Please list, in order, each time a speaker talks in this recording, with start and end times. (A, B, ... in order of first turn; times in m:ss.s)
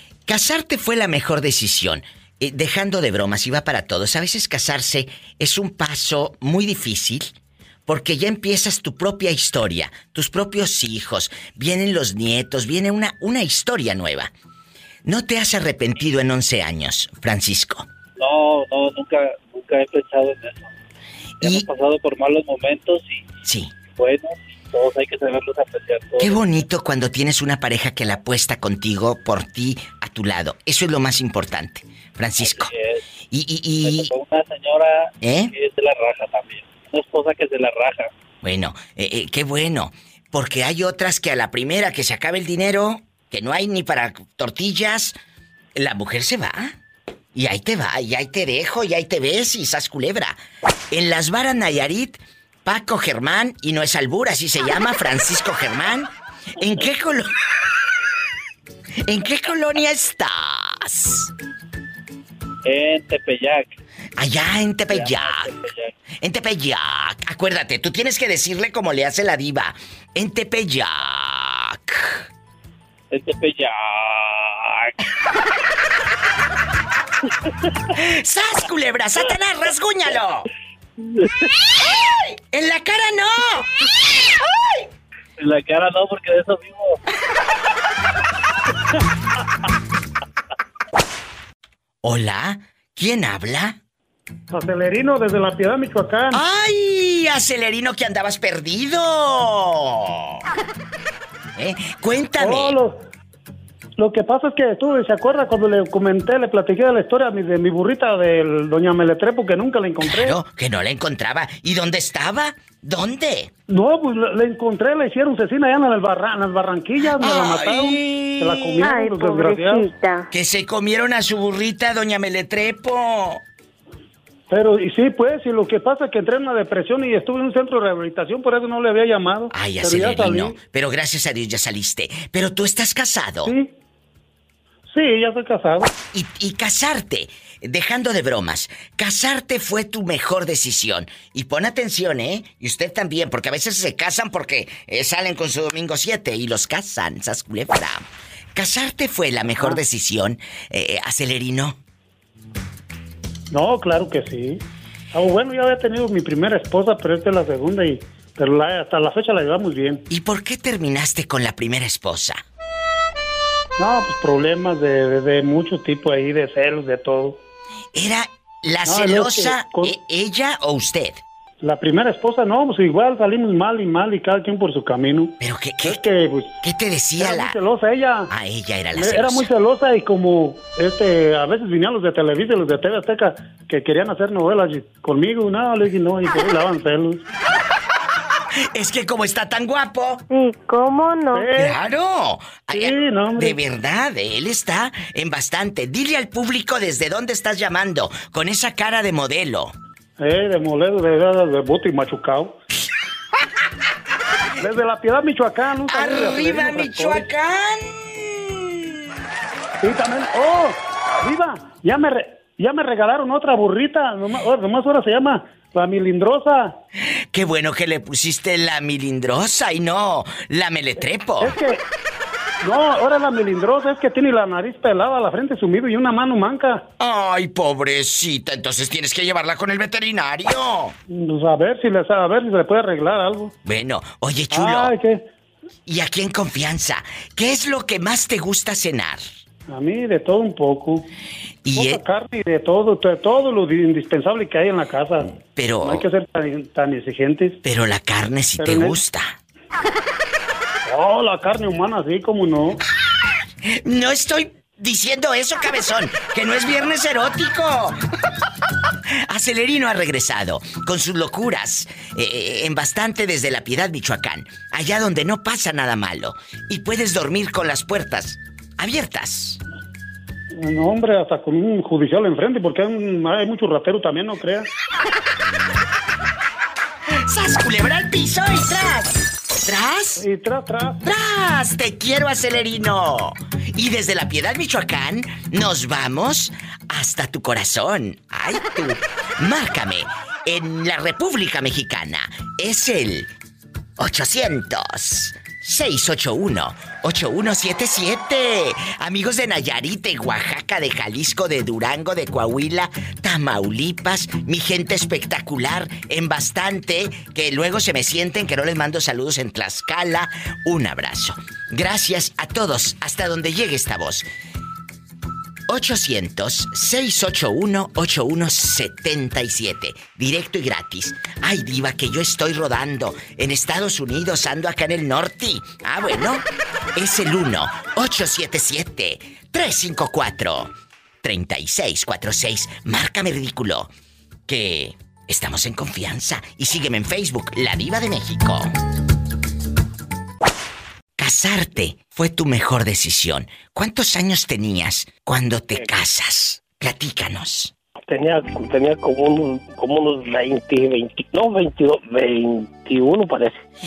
0:00.3-0:07.3 A
0:07.9-0:14.3 A
0:15.0-0:17.9 A
0:18.2-0:20.7 B
0:21.4-0:21.7 A
0:21.4-0:23.3 B
0:23.4-0:23.7 A
0:24.0-0:26.4 B
0:26.2-0:32.7 A
0:32.4-0:33.0 B
0:33.3-0:34.1 A
0:33.8-0:38.1 B
0:35.2-0:35.5 A
0:38.4-0:45.2 A
0:45.8-0:46.8 A
0:47.4-0:50.4 A
0:50.9-0:57.4 A
0:59.0-1:01.3 A
1:02.6-1:03.7 B
1:04.2-1:05.6 A
1:04.9-1:05.9 B
1:06.2-1:12.3 A
1:13.1-1:14.9 B
1:17.9-1:20.5 A
1:21.7-1:24.8 A
1:25.4-1:27.0 B
1:32.0-1:33.8 A
1:34.5-1:36.4 C
1:36.3-1:40.4 A
1:41.6-1:42.8 A
1:42.4-1:43.0 C
1:44.0-1:50.4 C
1:50.0-1:53.5 A
1:53.7-1:59.9 C
1:57.2-1:58.9 A
1:58.8-2:00.3 D
2:00.3-2:03.4 A
2:04.5-2:10.6 C
2:09.5-2:13.5 A
2:13.4-2:13.7 C
2:14.9-2:15.9 C
2:16.1-2:31.8 A
2:33.5-2:34.6 C
2:35.1-2:40.0 C
2:40.1-2:42.4 A
2:43.8-2:47.4 C
2:47.9-2:51.2 A
2:48.9-2:49.9 C
2:51.6-2:56.6 C
2:55.4-2:57.6 A
2:57.2-2:58.3 C
2:58.3-2:59.5 A
2:59.0-3:07.2 C
3:08.7-3:10.2 A
3:10.3-3:11.5 D
3:11.3-3:11.8 C
3:11.6-3:19.8 A
3:12.7-3:13.6 C
3:20.2-3:22.5 C
3:24.6-3:27.3 C
3:25.9-3:29.0 A
3:29.8-3:36.8 C
3:37.3-3:41.6 A
3:41.4-3:41.8 C
3:42.6-3:46.8 C
3:47.0-3:51.0 A
3:51.1-3:53.5 C
3:53.6-3:54.9 A
3:54.5-3:55.2 C
3:55.9-3:59.2 A
3:59.7-4:01.0 C
4:01.6-4:02.0 A
4:01.7-4:05.3 C
4:05.2-4:06.1 A
4:05.8-4:07.6 C
4:07.6-4:09.4 A
4:08.6-4:09.0 C
4:10.9-4:12.8 C
4:13.6-4:18.0 A
4:19.3-4:29.6 A
4:30.6-4:34.7 C
4:37.2-4:40.2 A
4:40.2-4:41.0 C
4:41.0-4:53.3 A
4:54.0-5:14.3 A
5:15.7-5:26.4 A
5:27.0-5:30.7 A
5:31.2-5:33.9 A
5:34.5-5:38.7 A
5:41.2-5:47.7 A
5:48.1-5:53.6 E